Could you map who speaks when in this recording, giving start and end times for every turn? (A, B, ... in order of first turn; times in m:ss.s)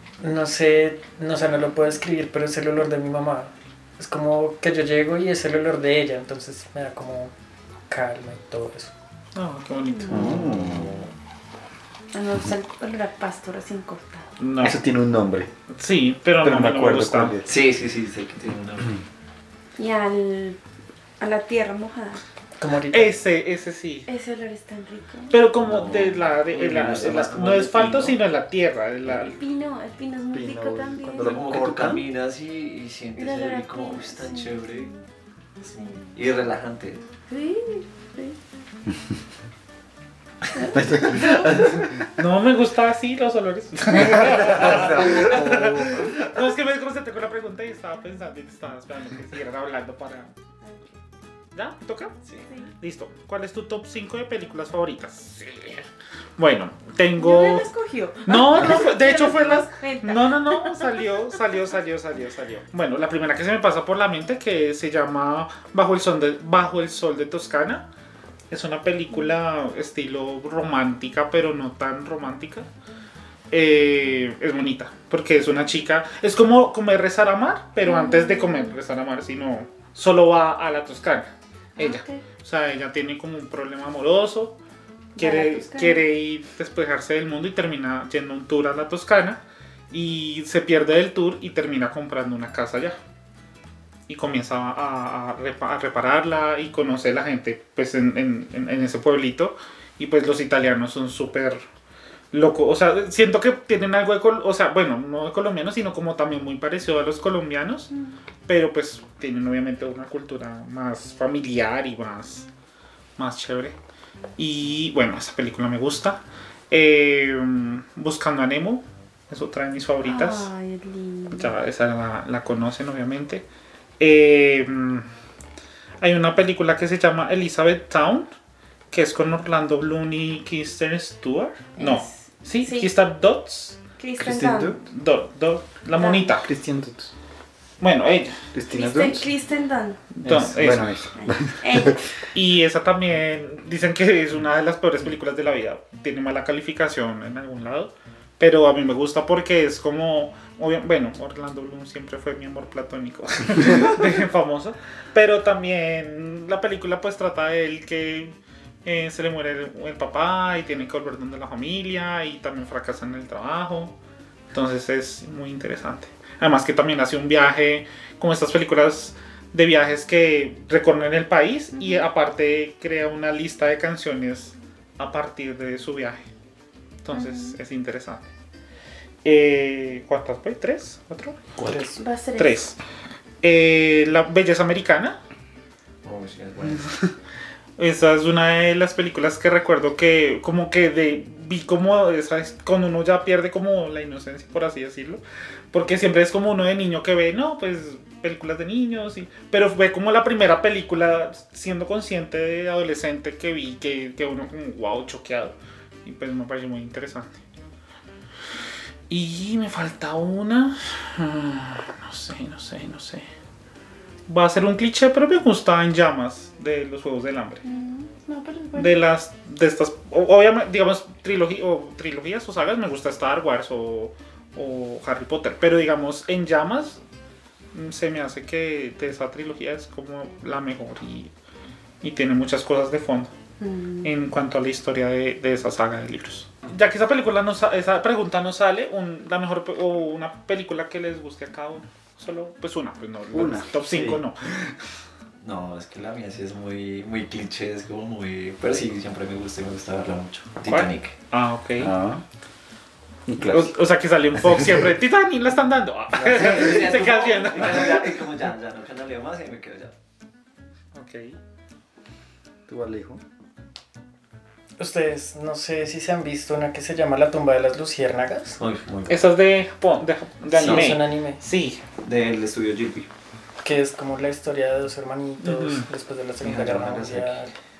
0:00.2-0:07.3 A
0:07.9-0:08.9 A
0:09.3-0:10.3 B
0:09.9-0:10.2 C
0:10.1-0:11.0 D
0:10.1-0:11.1 E
0:12.1-0:14.3 C
0:14.4-0:14.8 B
0:14.6-0:15.5 D
0:15.7-0:17.4 B
0:16.4-0:17.5 D
0:17.4-0:19.0 E
0:19.8-0:20.6 C
0:21.2-0:22.2 C
0:22.6-0:23.2 A
0:22.9-0:24.1 B
0:24.0-0:25.4 C
0:25.3-0:29.4 B
0:25.6-0:28.2 E
0:29.1-0:31.4 C
0:30.3-0:32.0 D
0:31.2-0:34.9 E
0:33.2-0:35.0 C
0:35.6-0:36.0 C
0:36.1-0:37.0 E
0:37.3-0:38.4 C
0:40.5-0:41.9 C
0:40.7-0:41.8 D
0:42.1-0:50.3 B
0:44.0-0:46.2 D
0:50.6-0:51.0 C
0:51.5-0:52.2 B
0:52.4-0:52.7 C
0:52.8-0:57.7 B
0:57.2-1:00.9 C
0:58.2-1:07.8 B
1:08.5-1:12.7 B
1:13.5-1:24.6 B
1:17.8-1:18.8 C
1:21.8-1:22.2 C
1:25.2-1:26.0 C
1:25.2-1:29.4 B
1:29.9-1:33.0 B
1:34.1-1:41.6 B
1:42.3-1:47.9 B
1:47.9-1:48.2 C
1:48.4-1:52.5 B
1:53.2-1:53.8 B
1:54.4-2:00.5 B
2:00.0-2:01.5 C
2:01.3-2:03.4 B
2:04.0-2:05.0 B
2:06.0-2:08.3 B
2:08.9-2:13.8 B
2:11.8-2:12.9 C
2:14.0-2:14.8 C
2:14.2-2:14.8 D
2:14.9-2:16.5 B
2:16.0-2:16.3 C
2:16.4-2:17.1 D
2:17.8-2:18.4 B
2:18.5-2:19.3 D
2:18.7-2:20.0 C
2:20.2-2:21.0 B
2:20.2-2:22.0 D
2:21.2-2:22.1 C
2:22.3-2:43.9 B
2:44.5-2:56.2 B
2:51.7-2:52.0 C
2:57.0-2:58.2 B
2:57.1-2:57.6 C
2:59.2-3:01.5 B
3:01.6-3:02.0 A
3:02.0-3:02.6 C
3:02.4-3:02.8 B
3:03.4-3:05.2 B
3:06.0-3:06.9 E
3:06.8-3:07.0 B
3:07.8-3:27.4 B
3:29.1-3:33.2 B
3:34.3-3:37.6 B
3:37.6-3:38.9 C
3:38.8-3:47.0 B
3:47.7-3:51.3 B
3:52.0-3:53.3 B
3:53.6-3:54.1 C
3:54.0-4:04.6 B
4:03.3-4:04.2 D
4:05.4-4:11.1 E
4:10.7-4:11.9 B
4:11.8-4:12.2 D
4:13.3-4:13.7 D
4:13.4-4:18.1 B
4:16.1-4:19.9 E
4:20.9-4:21.4 B
4:22.7-4:23.2 D
4:24.8-4:28.6 A
4:28.6-4:29.2 E
4:29.1-4:31.8 B
4:30.5-4:31.4 A
4:30.6-4:31.0 E
4:32.0-4:33.1 E
4:33.6-4:37.5 A
4:35.4-4:35.8 B
4:36.4-4:37.4 E